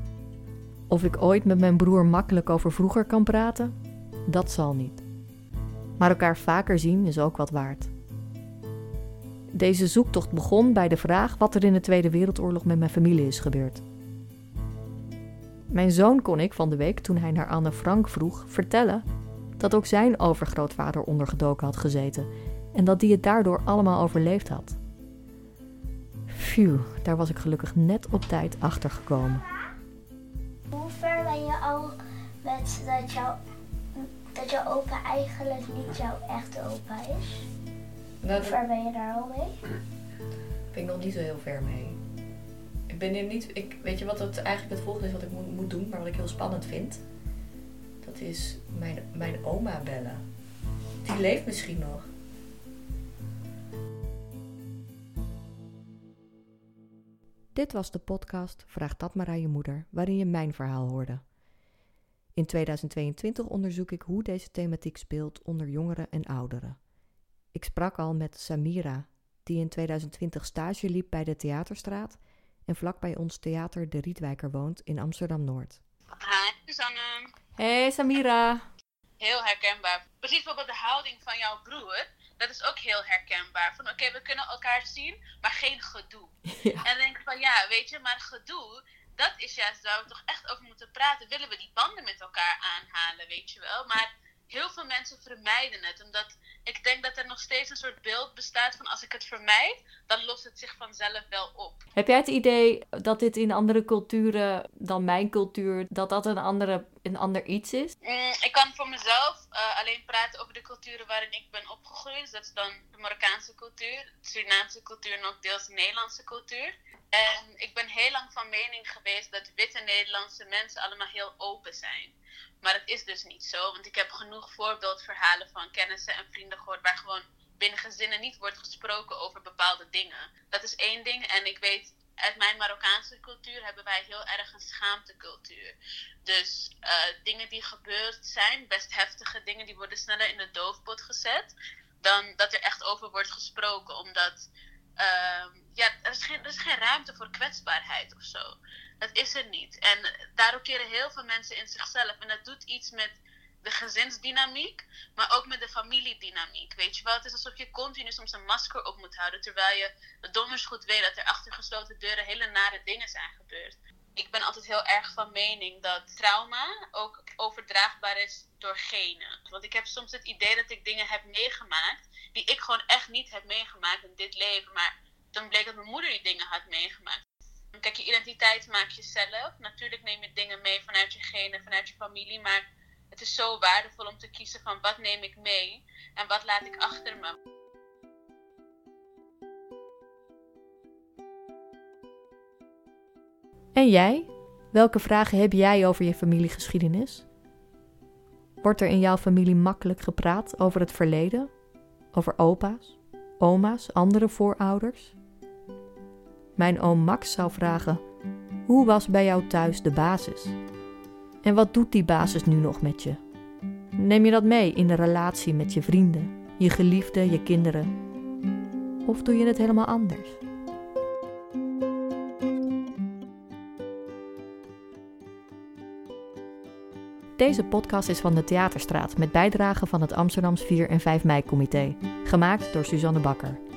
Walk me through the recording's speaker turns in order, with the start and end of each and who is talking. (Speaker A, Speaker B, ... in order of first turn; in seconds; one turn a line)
Speaker A: 0.9-3.7
Speaker A: 4.3-5.0
Speaker A: 6.0-7.9
Speaker A: 9.5-13.8
Speaker A: 15.7-19.0
Speaker A: 19.6-24.8
Speaker A: 26.3-29.4
Speaker B: 30.7-33.4
Speaker B: 33.9-37.5
Speaker A: 38.2-38.6
Speaker B: 38.3-39.6
Speaker A: 40.7-42.0
Speaker A: 42.9-47.0
Speaker A: 48.0-50.2
Speaker A: 51.0-52.1
Speaker A: 57.5-61.2
Speaker A: 62.3-66.8
Speaker A: 67.5-75.8
Speaker C: 76.2-77.3
Speaker A: 77.6-78.6
Speaker C: 79.2-86.3
Speaker A: 86.5-86.8
Speaker C: 86.8-101.8
Speaker A: 102.0-107.9
Speaker C: 108.0-135.7
Speaker C: 136.2-144.5
Speaker C: 145.0-148.4
Speaker C: 149.0-177.2
Speaker C: 177.7-187.3
Speaker A: 193.7-197.2
Speaker A: 198.6-201.5
Speaker A: 202.1-205.1
Speaker A: 206.6-208.0
Speaker A: 208.7-210.6
Speaker A: 211.4-213.2
Speaker A: 213.9-217.9
Speaker A: 219.0-220.4
Speaker A: 227.4-233.6